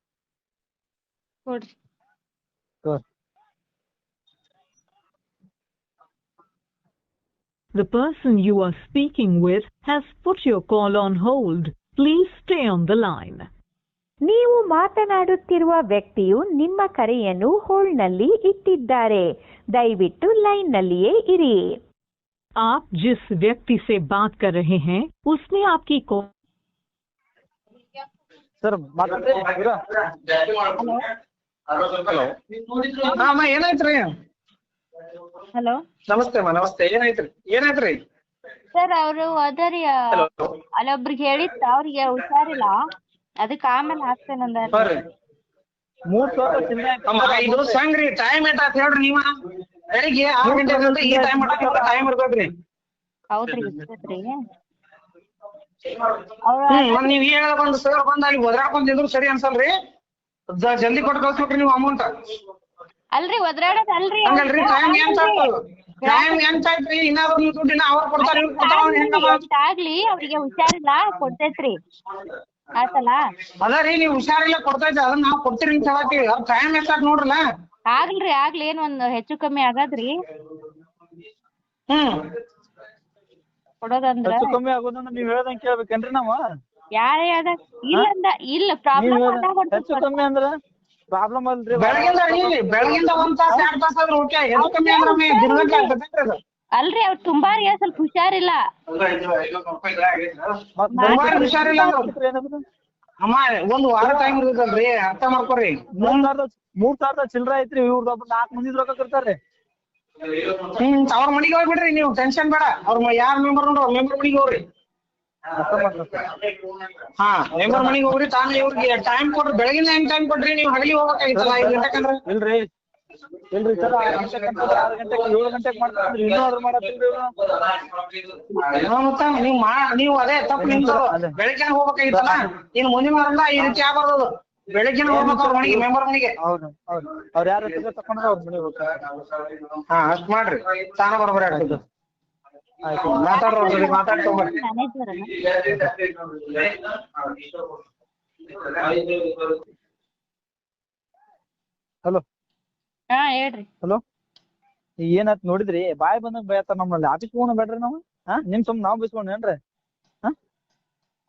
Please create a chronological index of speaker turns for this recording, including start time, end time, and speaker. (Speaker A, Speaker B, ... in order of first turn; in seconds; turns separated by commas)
Speaker A: 7.7-13.5, Speaker B: 14.2-21.8, Speaker A: 22.6-26.3, Speaker C: 28.6-29.8, Speaker D: 30.8-31.1, Speaker E: 31.8-32.3, Speaker E: 33.0-34.1, Speaker E: 36.1-38.0, Speaker D: 38.7-40.2, Speaker D: 40.8-42.8, Speaker D: 43.4-44.9, Speaker C: 46.1-47.8, Speaker E: 47.1-49.3, Speaker E: 49.9-52.5, Speaker C: 50.4-52.0, Speaker D: 53.3-54.3, Speaker D: 56.5-57.2, Speaker E: 56.7-59.7, Speaker E: 60.5-62.1, Speaker D: 63.1-65.5, Speaker E: 64.3-65.5, Speaker D: 66.0-66.5, Speaker E: 66.0-69.4, Speaker D: 68.2-71.8, Speaker D: 72.8-73.2, Speaker E: 73.6-77.4, Speaker D: 77.9-80.2, Speaker E: 81.9-82.3, Speaker D: 83.8-84.6, Speaker C: 84.2-86.4, Speaker D: 87.0-90.2, Speaker C: 89.0-90.5, Speaker C: 91.1-93.7, Speaker E: 91.7-96.4, Speaker D: 94.6-96.0, Speaker D: 96.8-98.6, Speaker E: 98.9-100.3, Speaker C: 100.8-102.6, Speaker D: 100.9-101.9, Speaker E: 101.0-102.1, Speaker E: 103.2-106.3, Speaker C: 104.0-104.4, Speaker C: 105.9-109.4, Speaker E: 110.7-114.6, Speaker C: 115.5-116.3, Speaker E: 117.2-122.2, Speaker C: 117.7-118.0, Speaker C: 121.3-122.7, Speaker C: 123.5-127.3, Speaker E: 128.6-136.3, Speaker C: 130.6-131.3, Speaker C: 132.1-132.4, Speaker C: 135.1-135.9, Speaker C: 136.4-139.0, Speaker E: 139.9-141.8, Speaker C: 141.5-141.8, Speaker C: 142.8-143.2, Speaker E: 143.0-144.6, Speaker D: 143.2-145.4, Speaker D: 153.1-153.7, Speaker C: 155.0-159.6